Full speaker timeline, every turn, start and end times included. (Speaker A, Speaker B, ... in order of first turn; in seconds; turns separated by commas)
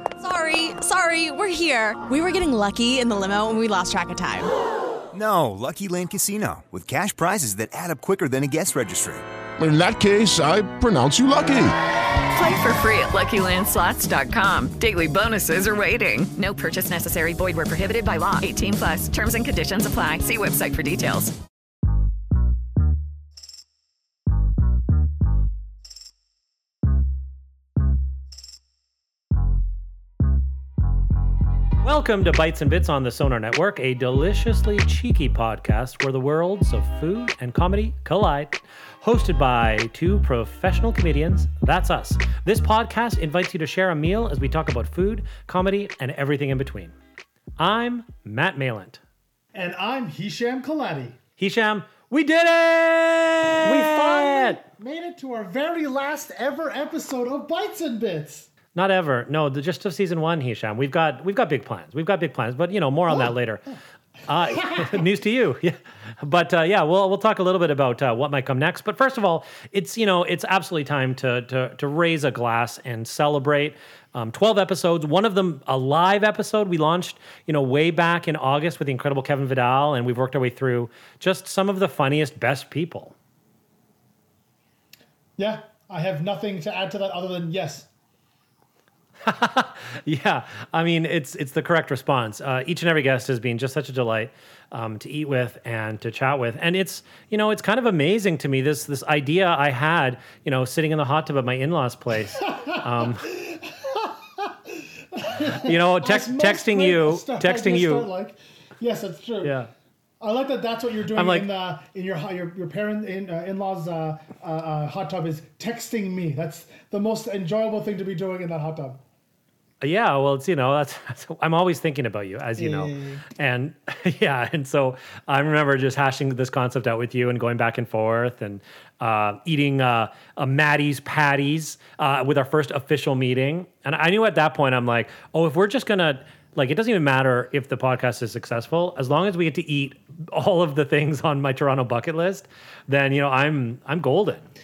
Speaker A: 0.2-4.5, Speaker B: 5.1-9.2, Speaker C: 9.6-11.8, Speaker D: 12.3-21.3, Speaker E: 31.8-46.9, Speaker E: 47.6-49.0, Speaker F: 49.5-51.2, Speaker E: 51.4-54.6, Speaker F: 53.6-58.5, Speaker E: 58.7-63.7, Speaker E: 64.3-83.1, Speaker F: 85.4-87.9, Speaker E: 89.2-103.3, Speaker F: 102.4-109.6, Speaker E: 105.6-108.1, Speaker E: 109.4-109.7, Speaker F: 110.2-119.0, Speaker E: 111.1-111.5, Speaker E: 119.8-144.4, Speaker F: 122.5-123.2